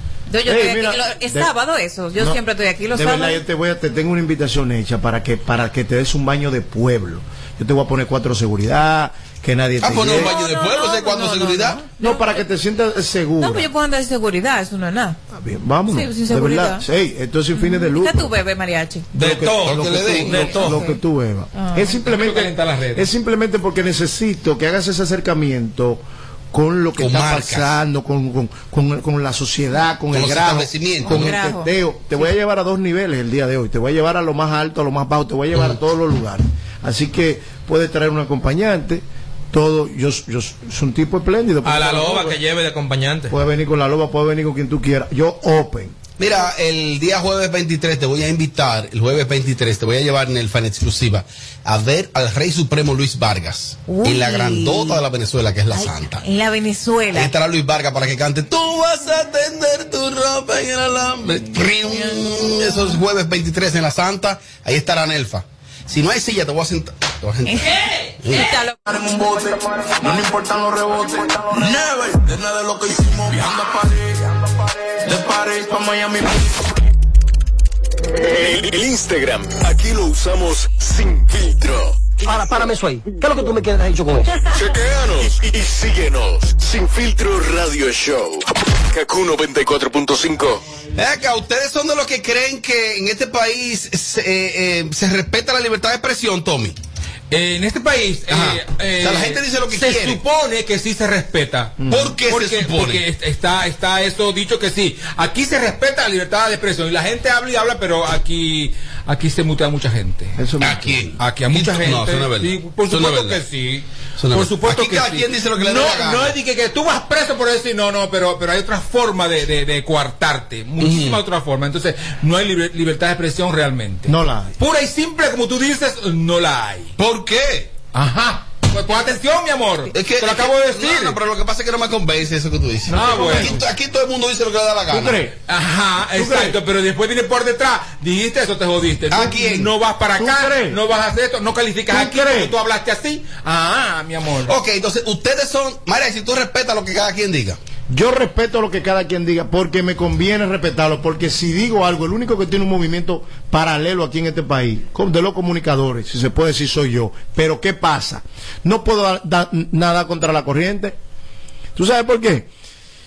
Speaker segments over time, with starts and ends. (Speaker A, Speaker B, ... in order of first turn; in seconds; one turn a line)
Speaker A: 0.3-3.4
Speaker B: 0.5-1.5
Speaker B: 2.2-2.4
Speaker B: 2.9-10.3
Speaker C: 9.8-11.8
Speaker A: 10.1-12.4
Speaker B: 12.0-13.7
Speaker A: 13.4-15.2
Speaker B: 15.3-18.3
Speaker A: 15.9-16.8
Speaker A: 17.6-19.1
Speaker B: 19.1-42.4
Speaker D: 19.1-20.9
Speaker C: 19.6-20.5
Speaker A: 20.3-20.9
Speaker A: 21.6-21.9
Speaker E: 21.9-23.1
Speaker C: 27.0-27.8
Speaker C: 30.1-31.3
Speaker A: 31.1-31.7
Speaker D: 41.6-43.4
Speaker B: 43.3-46.0
Speaker C: 46.2-56.2
Speaker A: 53.9-55.0
Speaker A: 55.7-57.3
Speaker C: 57.1-67.7
Speaker A: 67.5-68.7
Speaker C: 68.2-68.6
Speaker F: 68.8-76.7
Speaker G: 78.2-82.0
Speaker H: 82.2-84.3
Speaker G: 84.4-90.6
Speaker C: 91.0-96.8
Speaker E: 97.3-110.4
Speaker C: 98.3-100.2
Speaker B: 101.8-102.2
Speaker C: 101.9-103.0
Speaker B: 110.4-111.0
Speaker C: 110.6-113.4
Speaker E: 111.2-126.9
Speaker C: 114.2-116.3
Speaker C: 120.8-121.2
Speaker B: 124.1-124.5
Speaker C: 127.0-127.7
Speaker E: 127.9-131.2
Speaker C: 129.9-135.2
Speaker B: 132.9-133.6
Speaker E: 132.9-133.6
Speaker B: 134.9-135.3
Speaker E: 135.5-144.6
Speaker B: 136.1-136.6
Speaker C: 139.1-139.7
Speaker B: 140.2-140.8
Speaker B: 141.9-142.5
Speaker C: 144.5-147.6
Speaker B: 147.9-161.0
Speaker B: 161.8-162.5